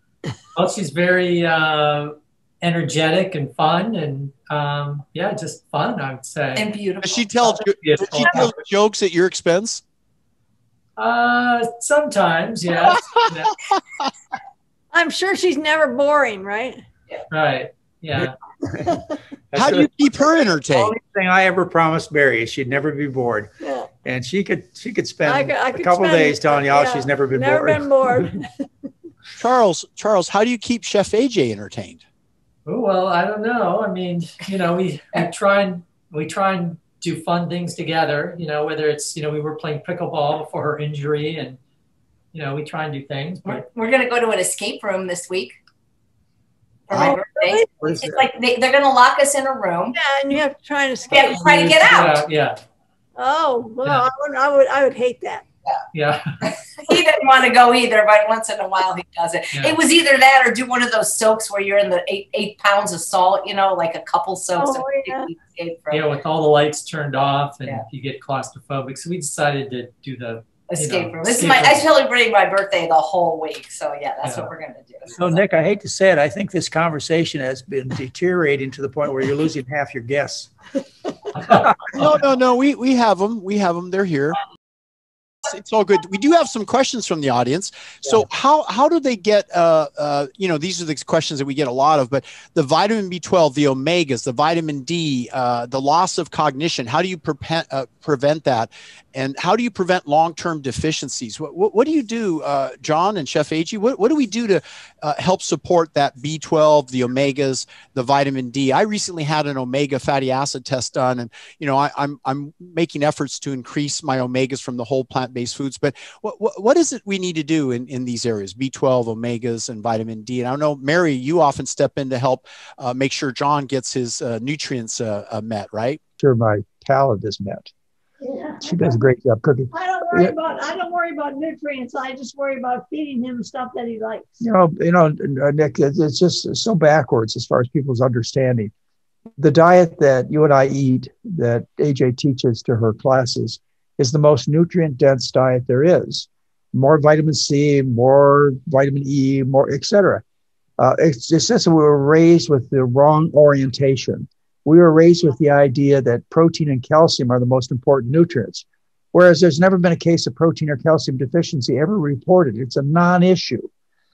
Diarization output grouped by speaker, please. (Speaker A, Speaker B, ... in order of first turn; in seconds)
Speaker A: 0.5-6.7, 7.8-8.5, 11.0-13.5, 17.3-18.3, 32.6-41.6, 42.3-43.6, 51.5-52.6, 55.9-56.4, 65.9-71.8, 74.2-74.5
Speaker B: 6.5-7.7, 43.4-45.6, 46.9-50.0, 51.1-52.2, 56.4-66.1, 70.7-75.4
Speaker C: 7.0-9.8, 12.9-13.8, 19.5-20.9, 29.3-32.0, 81.9-84.4, 85.4-126.0
Speaker D: 14.9-16.8, 23.6-23.9, 25.2-28.6, 46.9-47.9, 49.9-51.8, 53.1-55.4, 64.6-65.3, 128.2-129.0, 129.7-134.3
Speaker E: 18.7-19.0, 19.6-28.3, 47.8-48.2, 75.2-80.5, 81.3-82.0, 126.2-127.7, 128.6-130.3, 134.4-138.7, 139.4-150.2, 150.8-163.7